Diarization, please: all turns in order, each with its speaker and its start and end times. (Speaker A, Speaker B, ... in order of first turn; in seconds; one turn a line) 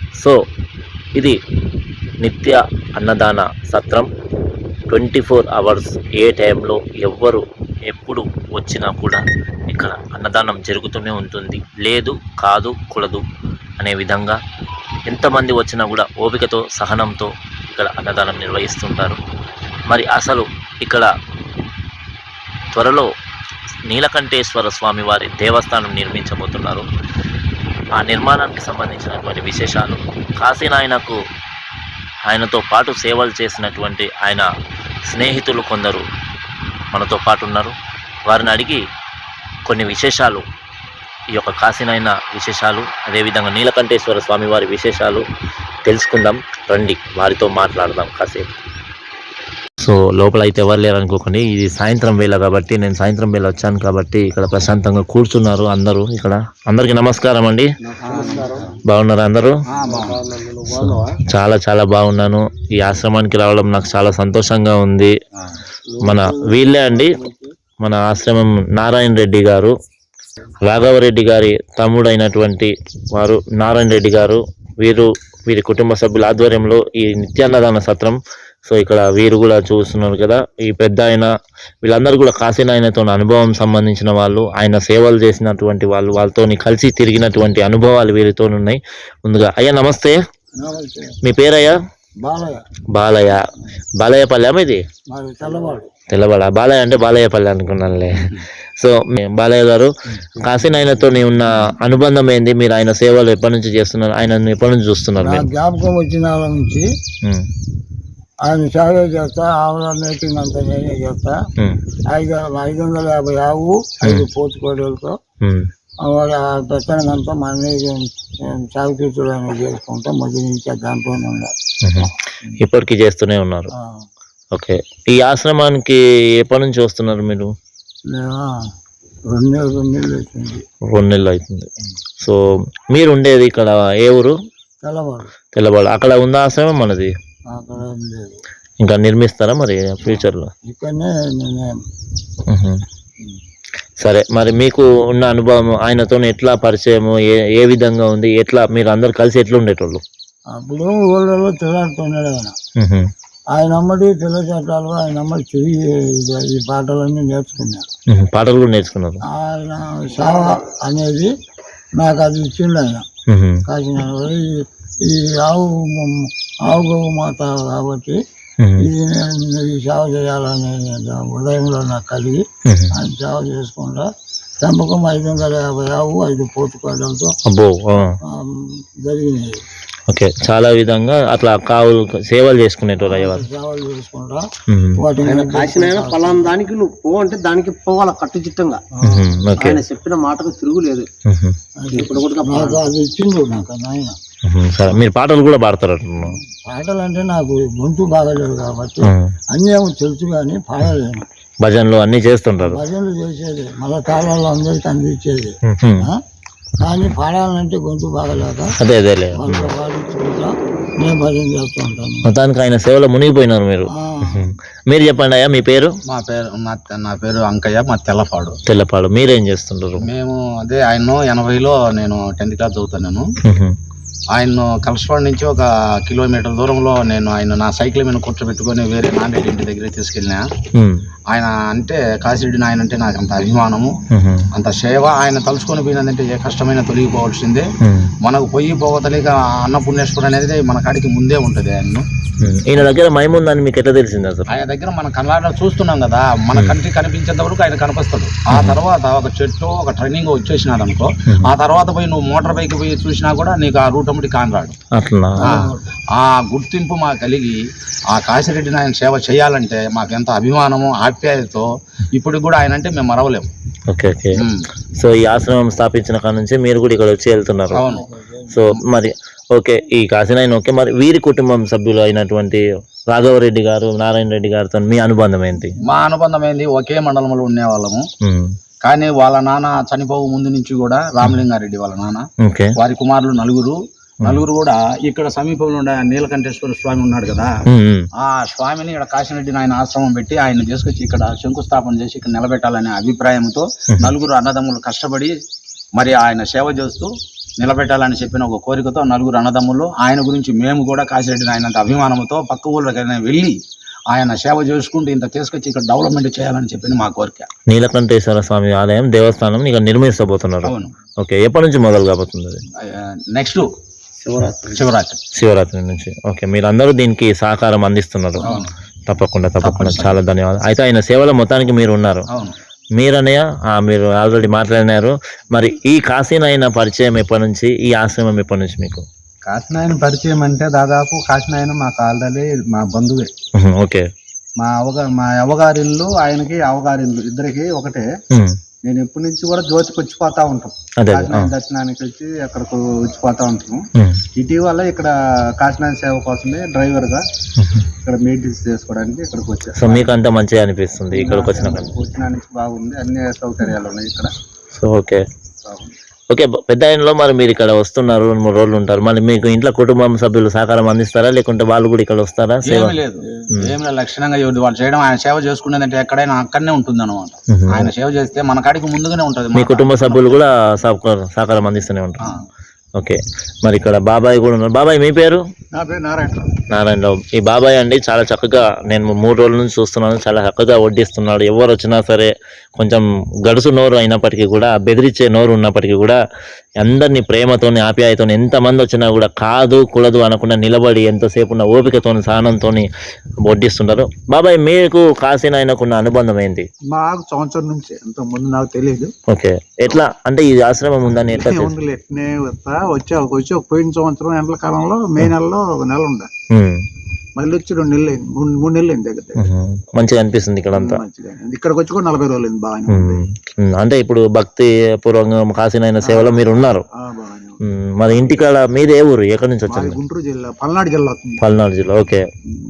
Speaker A: 2.2-4.1
Speaker A: 4.9-13.2
Speaker A: 13.8-14.4
Speaker A: 15.1-19.2
Speaker A: 19.9-21.1
Speaker A: 22.7-23.1
Speaker A: 23.9-26.8
Speaker A: 28.0-31.2
Speaker A: 32.3-34.5
Speaker A: 35.1-36.0
Speaker A: 36.9-37.7
Speaker A: 38.3-38.8
Speaker A: 39.7-40.4
Speaker A: 41.3-45.2
Speaker A: 45.9-48.5
Speaker A: 49.8-57.7
Speaker B: 58.0-58.6
Speaker C: 58.0-58.7
Speaker A: 58.9-59.6
Speaker B: 59.7-60.2
Speaker C: 59.8-61.1
Speaker A: 60.7-65.1
Speaker C: 65.9-67.5
Speaker A: 66.0-67.2
Speaker A: 67.8-69.7
Speaker A: 70.6-78.2
Speaker A: 78.7-81.3
Speaker A: 81.8-90.1
Speaker D: 90.6-91.2
Speaker A: 91.2-91.7
Speaker D: 92.2-92.6
Speaker A: 92.9-93.4
Speaker A: 94.0-94.8
Speaker D: 95.1-95.9
Speaker A: 96.1-105.5
Speaker D: 105.2-106.9
Speaker D: 108.5-111.3
Speaker D: 112.1-115.2
Speaker D: 116.0-121.5
Speaker A: 121.8-123.7
Speaker D: 123.8-124.0
Speaker A: 124.5-127.5
Speaker D: 128.1-128.5
Speaker D: 129.3-130.6
Speaker A: 130.9-131.7
Speaker A: 132.9-134.3
Speaker D: 134.8-135.3
Speaker A: 135.5-137.1
Speaker D: 137.5-138.4
Speaker A: 138.8-140.5
Speaker D: 140.7-141.7
Speaker A: 142.5-142.8
Speaker A: 144.0-150.0
Speaker D: 150.5-152.6
Speaker A: 152.8-153.0
Speaker D: 153.5-157.8
Speaker A: 158.1-159.2
Speaker D: 159.3-161.3
Speaker D: 162.0-163.0
Speaker A: 163.3-163.6
Speaker D: 163.7-168.2
Speaker A: 168.6-168.9
Speaker D: 168.8-174.1
Speaker A: 172.7-172.9
Speaker D: 174.6-177.3
Speaker A: 177.5-178.1
Speaker D: 178.2-179.5
Speaker A: 180.1-183.4
Speaker D: 183.0-186.6
Speaker A: 184.7-185.0
Speaker C: 185.2-188.8
Speaker A: 189.0-189.8
Speaker C: 189.6-191.1
Speaker A: 191.3-191.5
Speaker D: 191.8-194.2
Speaker C: 191.9-192.8
Speaker A: 194.5-196.3
Speaker D: 196.2-201.3
Speaker A: 201.6-202.8
Speaker D: 202.6-206.2
Speaker A: 205.7-206.1
Speaker D: 206.8-208.7
Speaker A: 208.8-209.7
Speaker D: 209.3-212.3
Speaker A: 212.2-215.9
Speaker D: 213.9-214.4
Speaker B: 216.1-218.6
Speaker A: 218.7-220.1
Speaker B: 220.0-223.2
Speaker A: 223.4-223.7
Speaker B: 224.3-230.4
Speaker B: 231.3-234.0
Speaker A: 234.1-234.5
Speaker B: 234.5-237.7
Speaker A: 237.8-238.1
Speaker B: 238.2-242.1
Speaker A: 242.4-244.5
Speaker B: 244.5-254.8
Speaker A: 248.5-248.8
Speaker A: 254.9-255.5
Speaker D: 255.4-255.8
Speaker B: 255.4-257.6
Speaker B: 258.1-263.5
Speaker A: 263.9-264.4
Speaker B: 264.4-264.6
Speaker A: 265.0-267.8
Speaker B: 267.7-268.1
Speaker D: 267.8-268.7
Speaker A: 268.5-275.7
Speaker B: 275.8-278.0
Speaker A: 278.2-278.5
Speaker B: 278.8-282.2
Speaker A: 282.4-282.7
Speaker B: 282.8-287.5
Speaker A: 287.7-288.1
Speaker B: 288.2-295.3
Speaker B: 295.9-303.6
Speaker B: 304.1-307.5
Speaker A: 307.7-312.6
Speaker B: 310.6-310.9
Speaker B: 312.8-313.7
Speaker C: 314.2-314.9
Speaker B: 314.7-315.2
Speaker A: 315.4-318.4
Speaker B: 318.4-318.7
Speaker A: 319.1-322.2
Speaker B: 319.6-320.2
Speaker A: 323.0-329.0
Speaker E: 329.5-333.3
Speaker A: 333.6-334.1
Speaker E: 334.6-338.1
Speaker E: 338.9-343.8
Speaker A: 341.0-341.5
Speaker E: 344.3-347.2
Speaker A: 347.6-347.8
Speaker E: 348.0-350.1
Speaker A: 349.8-351.9
Speaker E: 351.1-354.3
Speaker A: 354.7-355.2
Speaker A: 356.3-363.0
Speaker B: 362.6-370.4
Speaker A: 367.5-367.9
Speaker A: 369.5-372.2
Speaker A: 373.0-375.4
Speaker E: 375.7-376.5
Speaker A: 376.7-386.2
Speaker A: 386.8-392.9
Speaker A: 393.4-396.7
Speaker E: 396.9-399.1
Speaker A: 399.3-401.7
Speaker E: 401.3-406.3
Speaker E: 407.4-409.4
Speaker A: 409.4-411.0
Speaker E: 410.7-413.2
Speaker A: 412.9-416.8
Speaker E: 416.0-416.6
Speaker E: 417.1-417.6
Speaker A: 417.6-420.0
Speaker E: 418.1-418.4
Speaker E: 419.7-421.4
Speaker A: 421.4-422.2